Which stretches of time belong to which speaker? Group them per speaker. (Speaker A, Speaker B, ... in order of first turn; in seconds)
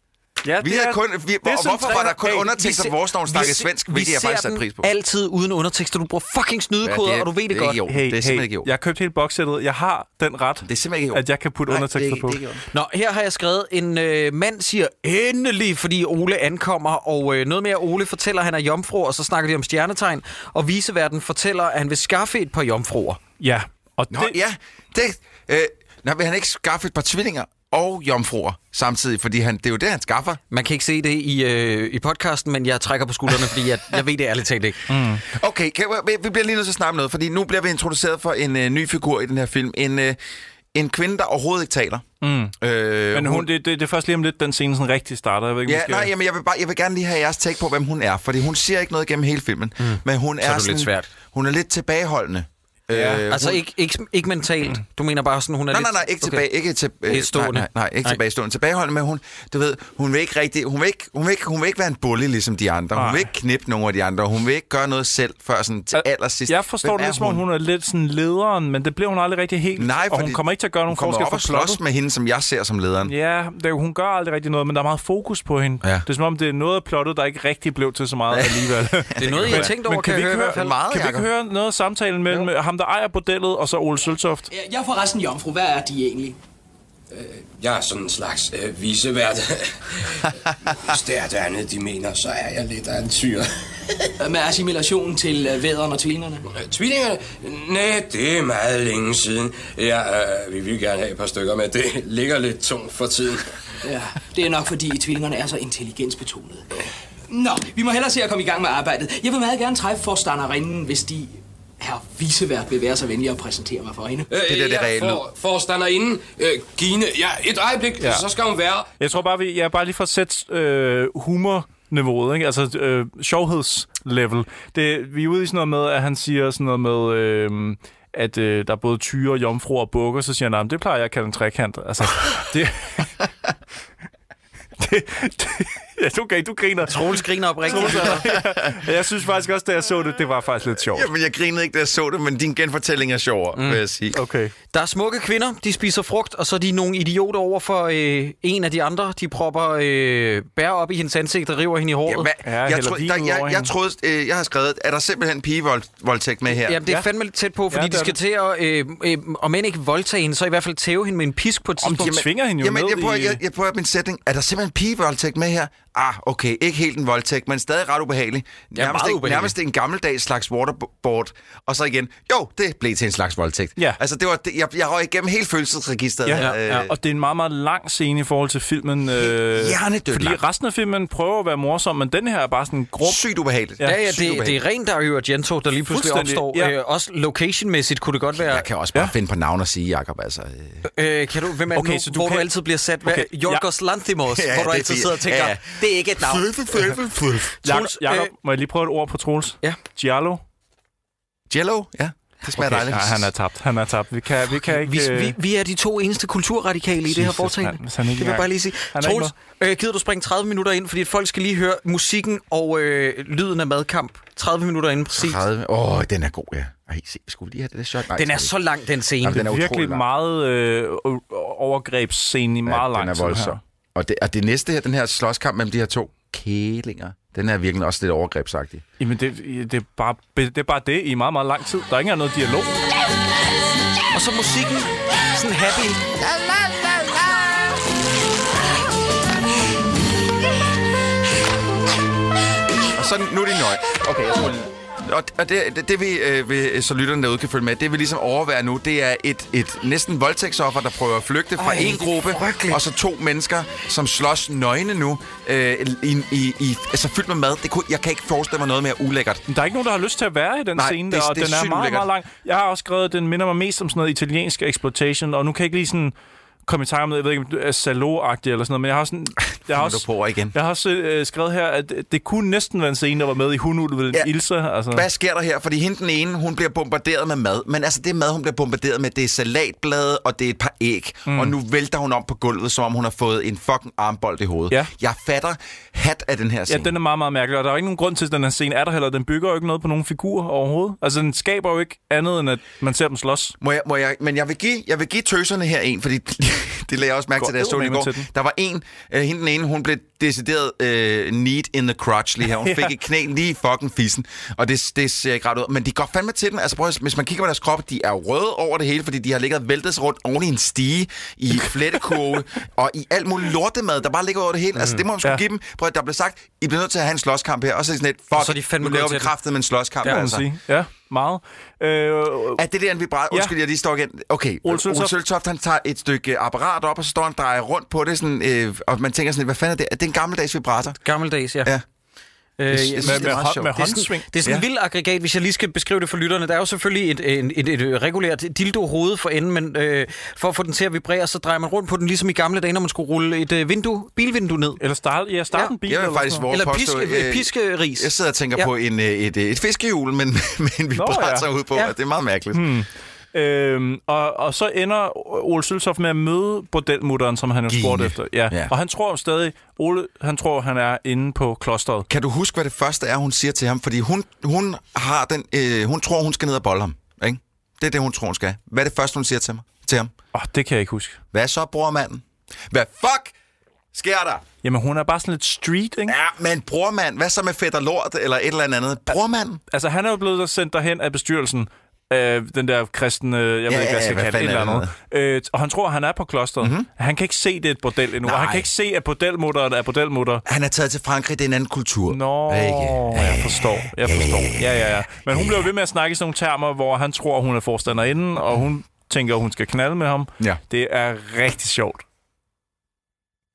Speaker A: 0.4-2.4, 7.9-12.4, 23.4-24.4, 34.9-35.2, 42.2-42.5, 43.1-46.1, 52.9-53.2, 62.9-63.3, 65.9-71.8, 73.0-84.5, 118.0-118.2, 119.0-133.1, 134.8-141.1, 144.1-144.5, 152.4-153.7, 157.7-158.2, 161.8-163.4, 176.2-183.2, 185.9-186.7, 191.7-192.5, 193.0-193.6, 197.6-200.4, 202.6-205.3, 207.1-209.3, 219.3-223.6, 229.0-232.8, 259.5-266.1, 266.6-275.1, 281.3-281.5, 286.7-293.6, 297.4-298.3, 302.6-302.9, 320.0-322.6, 324.6-325.1, 333.0-334.3, 344.8-346.5, 350.9-351.5, 352.5-362.1, 370.3-371.2, 374.6-376.1, 379.7-390.4, 392.1-402.0
Speaker B: 0.6-4.9, 6.8-8.7, 10.7-12.6, 24.1-30.4, 35.3-40.2, 40.7-42.0, 42.6-43.5, 45.6-53.6, 55.7-67.4, 69.8-73.1, 78.3-79.7, 80.5-81.3, 114.4-115.2, 137.7-138.8, 140.9-144.2, 152.1-156.8, 162.0-176.9, 179.2-180.4, 183.0-184.6, 188.4-190.8, 194.3-197.6, 201.5-203.3, 215.1-218.5, 219.2-220.0, 222.7-228.8, 236.1-237.8, 242.9-259.4, 260.8-262.1, 269.7-270.5, 274.9-286.9, 293.6-320.4, 322.6-331.0, 332.7-333.8, 345.9-352.6, 357.7-358.7, 362.1-370.1, 371.3-373.3, 373.9-374.4, 376.1-379.6, 383.7-384.9, 386.6-386.9, 388.2-388.7, 390.4-395.7
Speaker C: 2.2-7.8, 12.7-23.2, 30.5-34.9, 49.8-51.1, 53.3-56.5, 57.0-58.2, 79.2-80.7, 136.9-138.2, 144.7-152.3, 156.6-162.2, 168.7-169.5, 176.3-176.9, 183.8-188.7, 190.9-196.5, 197.6-198.3, 204.5-215.4, 218.1-219.4, 234.1-236.0, 251.6-252.8, 318.3-319.3, 331.0-331.7, 332.6-344.8, 346.5-348.7
Speaker D: 84.5-86.4, 94.2-96.4, 103.8-106.6, 107.3-114.3
Speaker E: 87.1-93.5, 96.5-103.5, 114.3-118.9